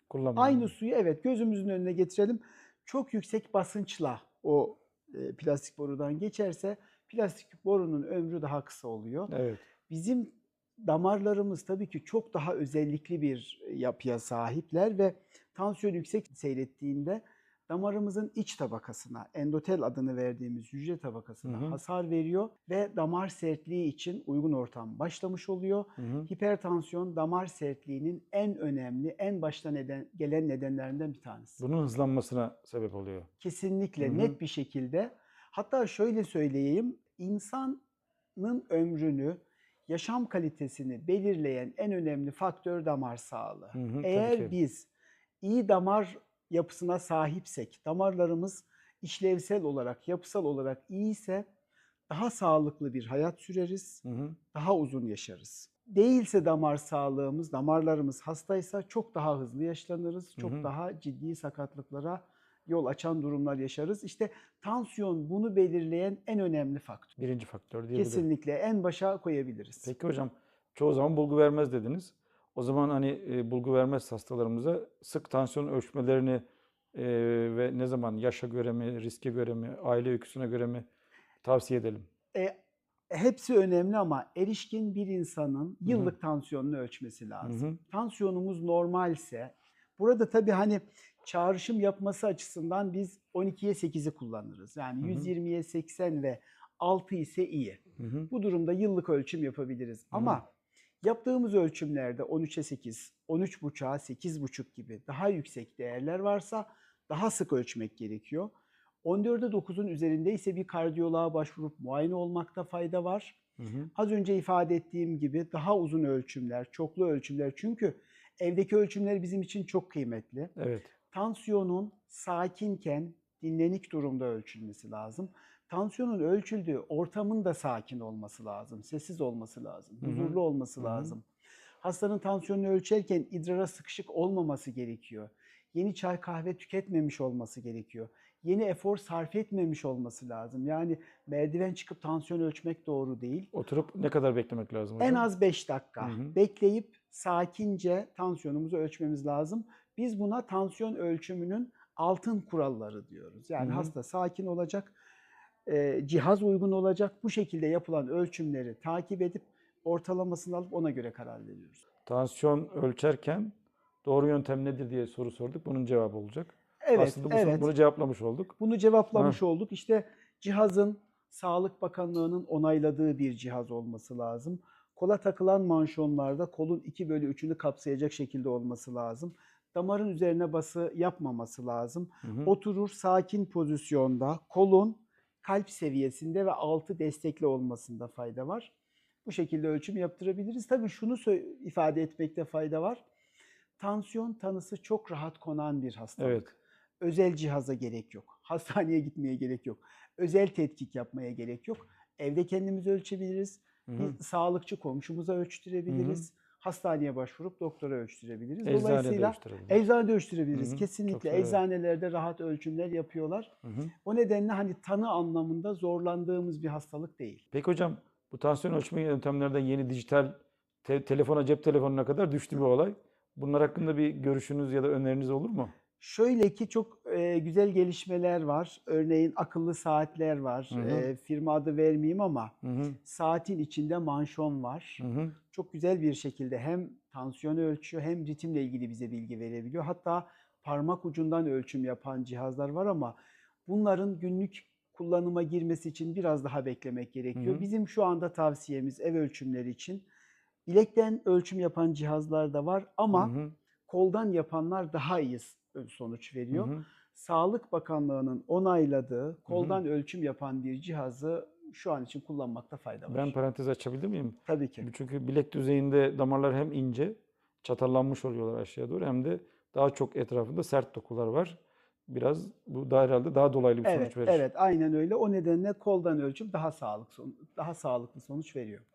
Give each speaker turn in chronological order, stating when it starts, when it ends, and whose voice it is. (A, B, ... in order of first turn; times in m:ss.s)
0:00.1-0:00.7 A
0:00.3-0:09.3 B
0:09.3-0:09.6 A
0:09.9-0:31.6 B
0:21.4-0:21.8 A
0:26.0-0:26.3 A
0:31.6-0:33.3 A
0:33.4-0:37.8 B
0:34.0-0:34.4 A
0:38.4-0:44.9 B
0:43.7-0:44.5 A
0:45.4-0:51.5 B
0:52.1-1:07.2 B
0:54.0-0:54.4 A
1:00.4-1:00.7 A
1:07.2-1:08.3 A
1:07.9-1:09.9 B
1:09.8-1:20.8 A
1:21.4-1:22.1 A
1:23.1-1:40.4 B
1:25.9-1:26.1 A
1:27.4-1:27.8 A
1:35.0-1:35.3 A
1:38.0-1:38.3 A
1:40.1-1:40.4 A
1:41.0-1:53.4 B
1:53.6-1:53.9 A
1:53.9-2:00.5 B
2:00.6-2:00.9 A
2:01.1-2:11.2 B
2:10.0-2:11.1 A
2:11.8-2:23.5 B
2:23.5-2:25.2 A
2:25.0-2:34.9 B
2:26.0-2:26.3 A
2:33.6-2:33.9 A
2:35.6-2:41.8 B
2:42.0-2:43.5 A
2:44.0-2:48.6 A
2:46.8-2:47.7 B
2:48.6-3:08.7 B
3:02.2-3:02.5 A
3:09.2-3:13.0 B
3:13.8-3:33.5 B
3:16.2-3:16.5 A
3:23.9-3:24.2 A
3:25.9-3:26.2 A
3:28.6-3:29.8 A
3:30.5-3:31.6 A
3:33.6-3:33.9 A
3:34.0-3:37.4 B
3:37.5-3:45.7 A
3:46.0-4:10.0 B
3:50.7-3:51.1 A
3:52.6-3:53.0 A
3:55.0-3:55.4 A
4:07.4-4:07.6 A
4:10.6-4:13.3 B
4:13.1-4:13.5 A
4:13.9-4:23.4 B
4:16.5-4:16.8 A
4:19.5-4:19.8 A
4:23.1-4:34.4 A
4:24.4-4:24.9 B
4:33.8-4:38.8 B